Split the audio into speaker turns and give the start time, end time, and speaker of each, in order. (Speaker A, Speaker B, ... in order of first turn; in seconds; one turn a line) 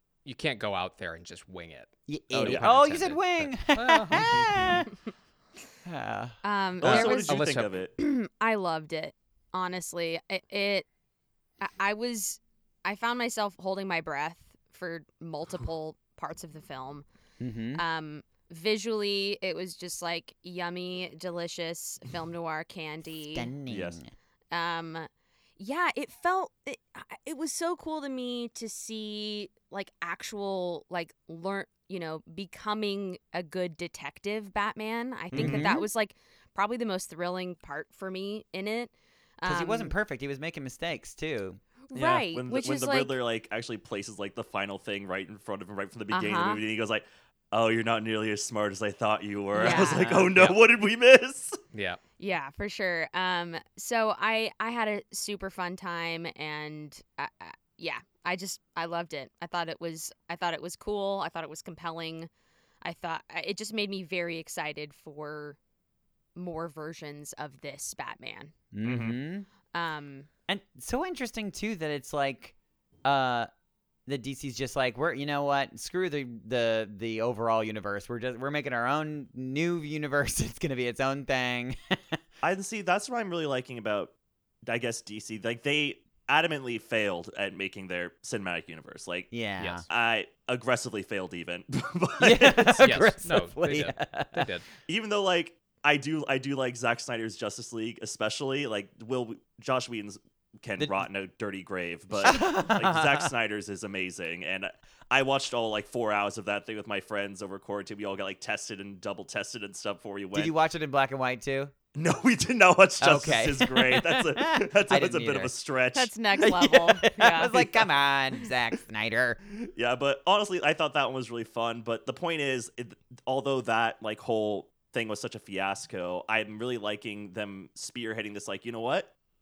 Speaker A: 0.2-4.8
Speaker B: 2.1-4.9
Speaker C: 2.3-2.7
Speaker B: 5.8-6.4
Speaker D: 6.4-10.9
Speaker C: 6.8-7.9
Speaker A: 6.8-7.8
Speaker D: 11.6-17.0
Speaker B: 17.4-17.8
Speaker D: 17.7-23.5
Speaker B: 23.3-24.1
Speaker C: 23.7-24.0
Speaker D: 24.5-39.9
Speaker C: 35.3-35.7
Speaker B: 35.3-35.9
Speaker B: 39.4-41.6
Speaker D: 41.9-43.2
Speaker C: 41.9-51.6
Speaker D: 46.1-46.6
Speaker D: 49.5-50.1
Speaker B: 49.6-50.3
Speaker A: 50.1-50.6
Speaker A: 51.7-52.0
Speaker D: 52.2-62.3
Speaker D: 62.8-65.6
Speaker D: 66.3-68.5
Speaker B: 68.7-69.5
Speaker C: 68.8-69.2
Speaker D: 69.7-70.3
Speaker B: 70.5-72.5
Speaker B: 73.0-73.5
Speaker B: 74.1-82.2
Speaker C: 82.4-89.3
Speaker B: 89.3-89.8
Speaker A: 89.6-89.8
Speaker C: 89.9-92.8
Speaker B: 92.2-94.5
Speaker A: 92.8-94.7
Speaker C: 94.9-110.5
Speaker B: 102.2-103.3
Speaker B: 110.3-111.7
Speaker C: 111.9-116.1
Speaker B: 113.0-115.5
Speaker D: 115.9-117.7
Speaker B: 116.4-119.4
Speaker C: 119.5-129.1